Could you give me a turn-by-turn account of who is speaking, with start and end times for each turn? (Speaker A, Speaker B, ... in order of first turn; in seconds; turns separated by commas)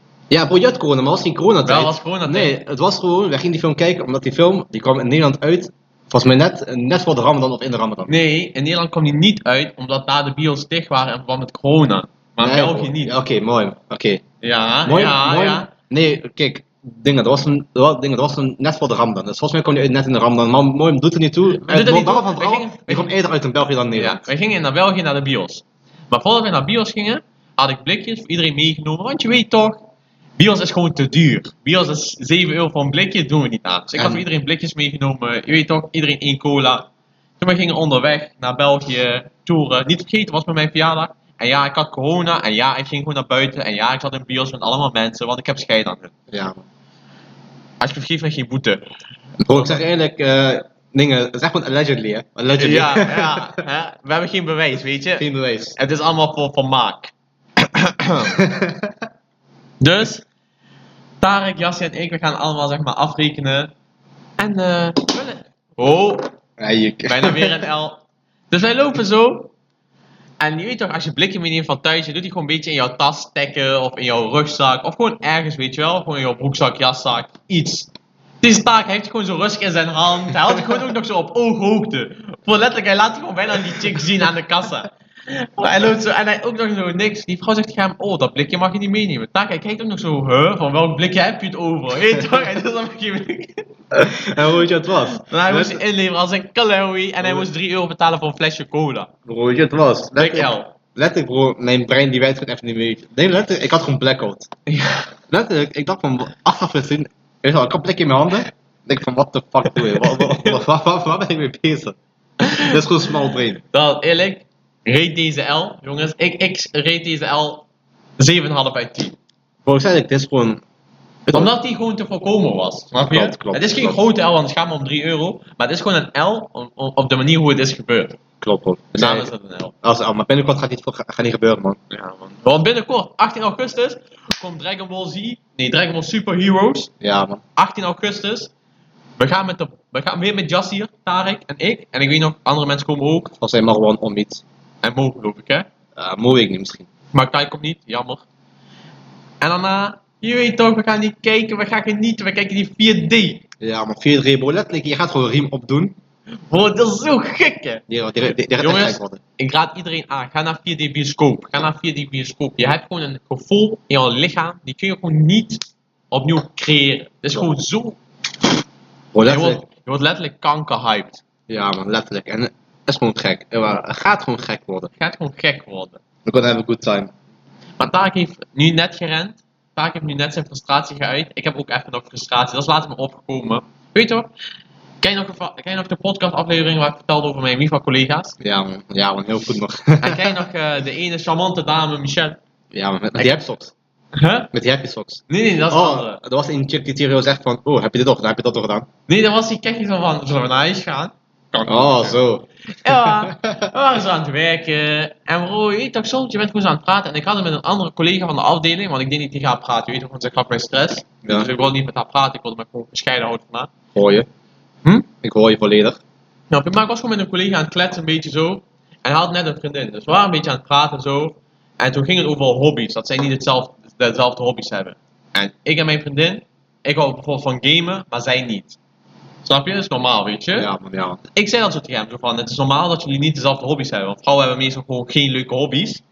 Speaker A: 0.3-8.1, Speaker B: 1.6-2.5, Speaker B: 8.1-13.1, Speaker A: 12.4-14.2, Speaker B: 14.4-15.7, Speaker A: 14.8-24.2, Speaker B: 21.5-23.1, Speaker B: 24.0-29.8, Speaker B: 30.4-36.9, Speaker A: 34.0-34.2, Speaker B: 37.4-46.1, Speaker A: 46.3-46.6, Speaker B: 47.8-48.8, Speaker A: 49.4-53.5, Speaker B: 52.6-55.2, Speaker A: 55.2-55.8, Speaker B: 55.8-58.3, Speaker A: 58.2-58.9, Speaker B: 59.8-60.2, Speaker B: 61.2-63.7, Speaker B: 64.4-66.3, Speaker A: 66.6-67.6, Speaker B: 67.0-69.5, Speaker B: 70.4-77.9, Speaker B: 78.4-93.7, Speaker A: 93.9-95.8, Speaker B: 95.1-99.1, Speaker A: 99.2-104.5, Speaker B: 100.2-100.7, Speaker B: 104.7-105.1, Speaker A: 105.3-112.0, Speaker B: 110.1-110.6, Speaker B: 112.4-112.7, Speaker A: 112.5-113.6, Speaker B: 113.7-117.7, Speaker B: 118.2-119.2, Speaker A: 119.6-120.6, Speaker A: 121.2-121.5, Speaker B: 121.3-128.2, Speaker A: 123.1-124.0, Speaker A: 128.4-129.3, Speaker B: 128.9-129.7, Speaker A: 129.8-131.8, Speaker B: 131.9-136.9, Speaker A: 137.0-137.4, Speaker B: 137.6-138.5, Speaker B: 139.2-143.3, Speaker A: 143.4-144.4, Speaker B: 144.8-145.7, Speaker A: 145.9-146.9, Speaker B: 147.1-148.2, Speaker B: 149.4-153.4, Speaker A: 153.6-155.9, Speaker B: 156.5-157.8, Speaker A: 157.9-159.2, Speaker B: 158.6-168.0, Speaker A: 169.1-169.6, Speaker B: 169.2-171.2, Speaker A: 171.5-174.9, Speaker B: 174.9-176.0, Speaker A: 176.2-177.1, Speaker B: 177.8-184.3, Speaker B: 185.0-188.3, Speaker A: 188.4-190.4, Speaker B: 190.0-192.4, Speaker A: 192.7-193.7, Speaker B: 194.1-194.5, Speaker A: 194.5-198.9, Speaker B: 195.3-196.2, Speaker B: 199.1-202.2, Speaker A: 201.7-203.7, Speaker B: 202.7-213.7, Speaker A: 213.9-214.3, Speaker A: 215.2-216.0, Speaker B: 216.5-228.8, Speaker B: 229.4-230.7, Speaker A: 230.5-231.2, Speaker B: 231.3-236.0